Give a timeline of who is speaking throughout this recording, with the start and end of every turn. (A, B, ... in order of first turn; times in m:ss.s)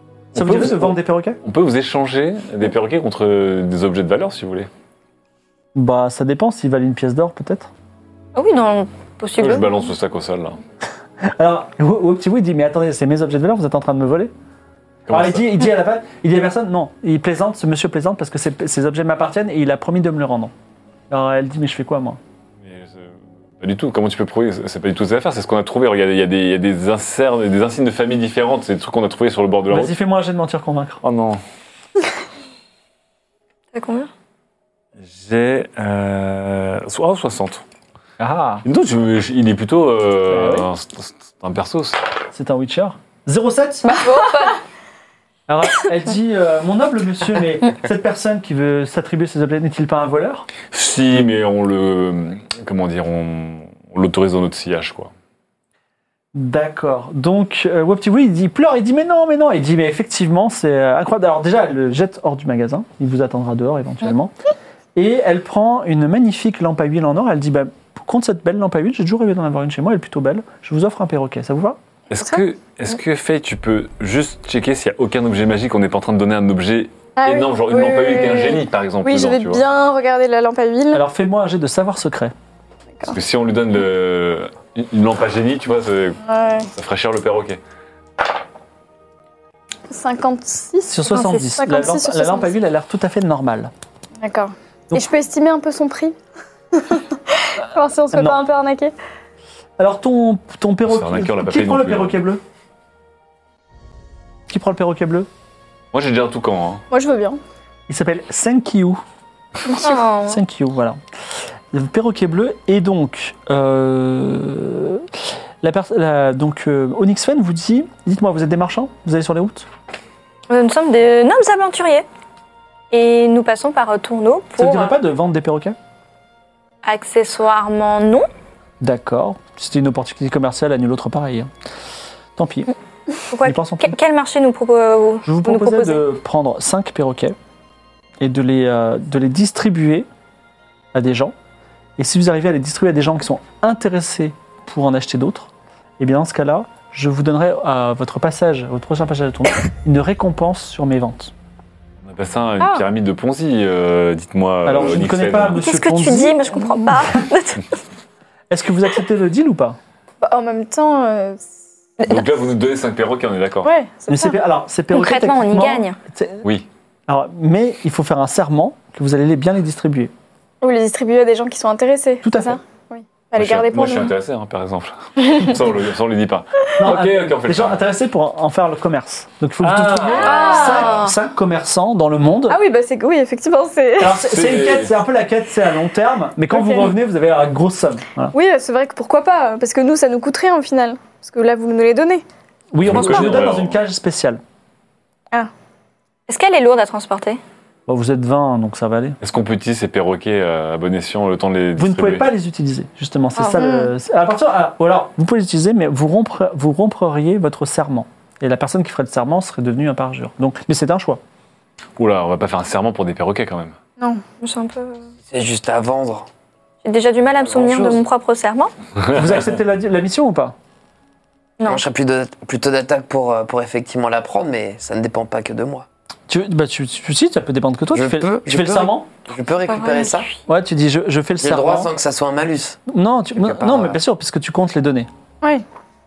0:00.3-0:04.7 A
0:00.4-0:01.4 B
0:05.8-0:07.7 B
0:08.4-0:09.7 C
0:09.4-0:10.6 A
0:11.2-0:14.3 B
0:15.1-0:15.5 A
0:15.1-0:20.5 B
0:21.1-0:22.2 B
0:22.6-0:29.9 A
0:29.7-0:31.0 B
0:31.0-0:31.4 A
0:33.7-0:34.1 C
0:35.0-0:37.6 A
0:38.2-0:38.6 B
0:38.6-0:42.0 A
0:40.3-0:40.7 B
0:42.3-0:44.0 B
0:43.9-0:44.6 C
0:45.5-0:50.5 B
0:50.7-0:55.1 A
0:56.3-1:04.3 B
1:05.0-1:11.8 B
1:12.1-1:19.6 A
1:17.2-1:21.0 D
1:20.9-1:22.3 B
1:23.1-1:26.2 A
1:26.2-1:26.7 D
1:26.7-1:27.6 A
1:29.9-1:32.5 D
1:30.9-1:33.7 B
1:31.1-1:31.4 C
1:34.2-1:36.2 D
1:36.7-1:38.9 D
1:38.1-1:38.4 B
1:39.8-1:42.4 B
1:40.9-1:42.2 A
1:44.5-1:45.3 B
1:45.9-1:46.8 A
1:46.9-1:47.4 D
1:47.9-1:49.0 B
1:49.7-1:50.4 C
1:50.3-1:51.0 B
1:51.7-1:55.1 B
1:55.6-1:59.7 B
2:00.5-2:02.1 C
2:02.9-2:05.0 C
2:04.6-2:05.8 B
2:06.8-2:08.3 C
2:08.8-2:11.5 B
2:12.4-2:12.7 B
2:13.3-2:16.0 C
2:13.4-2:14.0 B
2:15.2-2:17.4 B
2:18.2-2:20.1 B
2:20.9-2:21.3 B
2:22.0-2:31.3 B
2:32.0-2:35.6 A
2:34.6-2:37.2 B
2:35.6-2:37.7 C
2:38.5-2:39.8 B
2:40.2-2:41.4 D
2:42.0-2:42.3 C
2:42.0-2:43.7 A
2:43.6-2:44.4 D
2:44.1-2:46.4 B
2:44.9-2:46.0 C
2:47.1-2:50.1 B
2:50.6-2:54.1 D
2:52.2-2:52.6 B
2:53.4-2:57.8 A
2:56.8-3:02.6 B
2:59.6-3:01.0 A
3:00.1-3:01.0 D
3:00.2-3:01.1 C
3:02.5-3:04.2 D
3:04.0-3:08.4 B
3:04.1-3:04.9 A
3:06.5-3:06.9 D
3:08.3-3:12.2 D
3:12.7-3:14.4 B
3:12.8-3:13.8 A
3:16.3-3:17.4 C
3:17.9-3:19.2 B
3:19.2-3:22.3 A
3:21.8-3:31.2 B
3:23.4-3:23.9 D
3:32.0-3:33.8 A
3:34.4-3:35.1 C
3:35.3-3:36.3 E
3:36.8-3:38.7 C
3:37.5-3:38.0 E
3:39.1-3:40.6 B
3:41.7-3:45.9 E
3:46.3-3:49.1 B
3:47.9-3:50.3 E
3:49.7-3:50.2 C
3:50.5-3:51.9 B
3:51.4-3:52.8 E
3:52.9-3:55.1 B
3:53.4-3:54.0 E